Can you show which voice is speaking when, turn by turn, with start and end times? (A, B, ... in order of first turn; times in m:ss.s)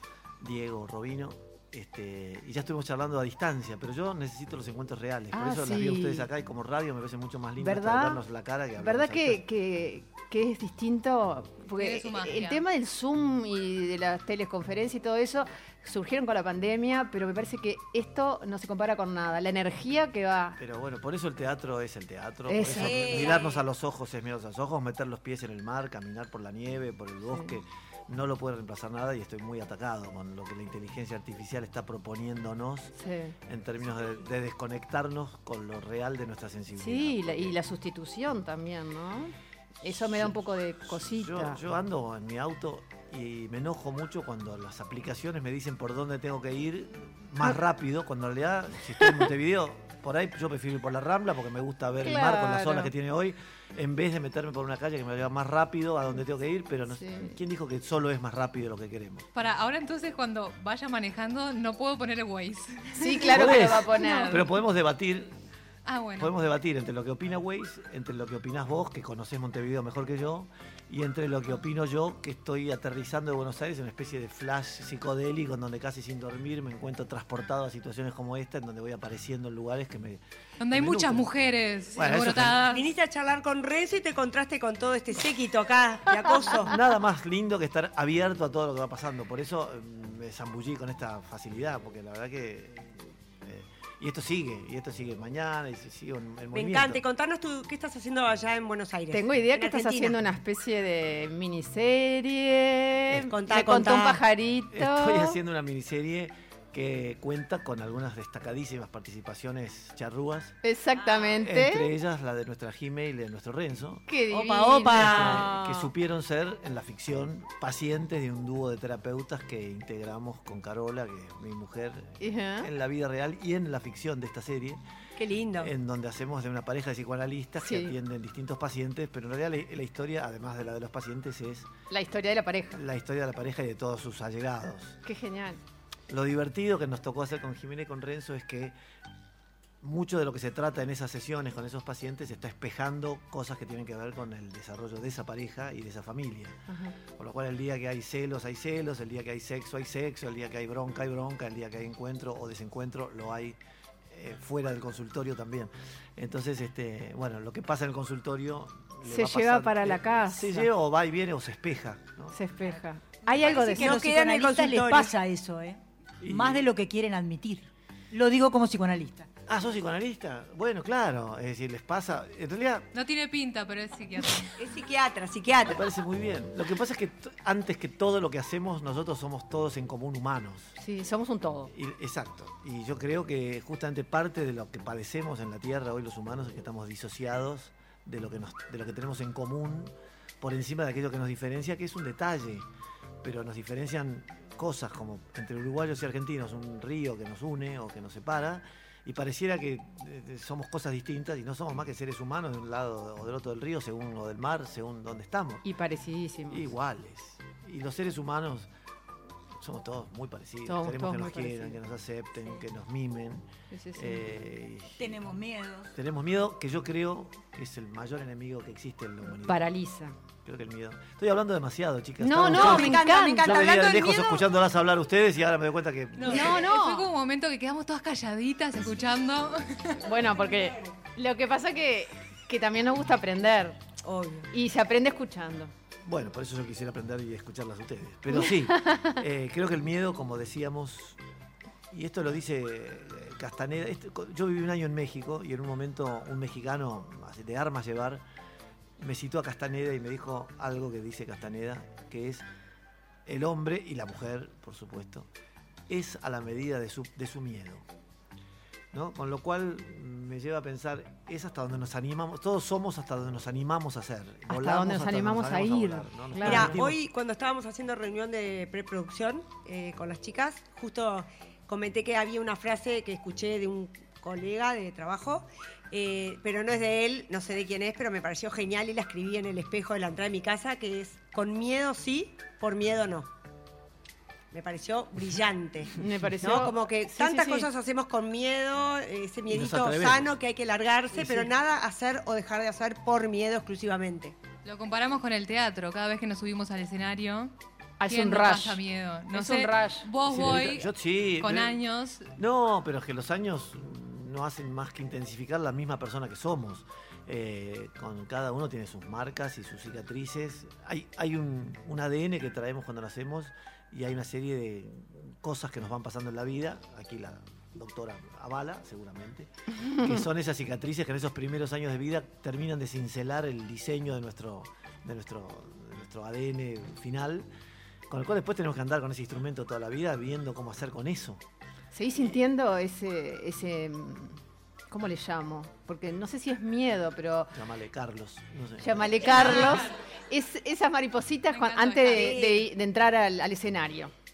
0:00.4-0:09.4 A
0:05.3-0:06.3 B
0:07.6-0:08.2 B
0:08.8-0:20.6 B
0:11.8-0:12.6 C
0:20.6-0:32.9 A
0:22.5-0:23.5 B
0:22.7-0:23.6 D
0:27.2-0:27.5 B
0:33.0-0:33.3 B
0:33.5-0:37.6 A
0:36.8-0:41.6 B
0:39.9-0:59.3 A
0:52.0-0:52.9 B
0:57.0-0:57.4 B
0:59.3-1:04.4 C
1:03.0-1:04.4 B
1:03.3-1:05.3 A
1:05.8-1:06.3 C
1:06.2-1:20.2 A
1:20.6-1:22.9 C
1:20.7-1:21.3 A
1:22.0-1:22.7 A
1:22.7-1:26.8 D
1:26.7-1:37.0 A
1:36.5-1:40.2 D
1:39.1-1:45.4 B
1:43.3-1:44.2 D
1:44.7-1:50.6 A
1:50.6-1:51.9 B
1:51.4-1:54.0 A
1:54.1-1:55.9 B
1:54.3-1:55.5 D
1:54.9-2:04.8 A
2:02.2-2:02.7 B
2:05.2-2:05.7 D
2:05.6-2:11.7 A
2:07.6-2:07.9 B
2:11.9-2:12.8 B
2:12.7-2:15.0 A
2:15.0-2:15.6 B
2:16.1-2:18.8 A
2:19.8-2:26.6 A
2:26.7-2:27.0 B
2:27.2-2:33.6 A
2:34.1-2:42.4 A
2:39.0-2:40.7 B
2:42.3-2:44.0 B
2:43.3-2:49.3 E
2:43.4-2:45.1 D
2:46.2-2:46.7 A
2:49.5-2:52.9 A
2:52.9-2:54.6 C
2:54.6-2:55.8 D
2:55.7-3:00.7 A
3:00.8-3:01.7 B
3:01.7-3:12.7 A
3:13.2-3:25.6 A
3:25.6-3:26.6 B
3:26.5-3:28.7 A
3:29.6-3:35.1 A
3:30.7-3:31.8 B
3:33.7-3:34.2 B
3:35.0-3:35.9 E
3:36.0-3:39.7 A
3:39.5-3:40.2 B
3:40.4-3:46.7 A
3:42.2-3:43.7 B
3:42.4-3:44.4 D
3:42.6-3:43.3 E
3:46.2-3:50.0 C
3:46.3-3:47.1 B
3:50.0-3:53.8 B
3:54.0-3:54.5 D
3:54.5-3:55.7 B
3:56.0-4:01.2 A
3:58.3-3:59.1 B
4:01.9-4:08.2 A
4:09.0-4:12.4 A
4:13.2-4:15.3 A
4:15.9-4:17.8 A
4:18.9-4:27.0 A
4:24.5-4:26.8 B
4:26.4-4:43.3 D
4:44.5-4:54.4 D
4:46.0-4:47.7 B
4:49.5-4:50.3 A
4:51.2-4:51.5 A
4:54.6-4:57.5 C
4:58.0-4:58.8 B
4:58.0-5:02.3 C
4:59.3-5:00.1 B
5:00.2-5:01.8 A
5:02.4-5:27.5 A
5:28.1-5:31.4 A
5:31.9-5:34.4 B
5:34.9-5:37.5 B
5:37.5-5:39.8 A
5:38.8-5:44.1 B
5:41.5-5:42.4 C
5:42.1-5:42.7 D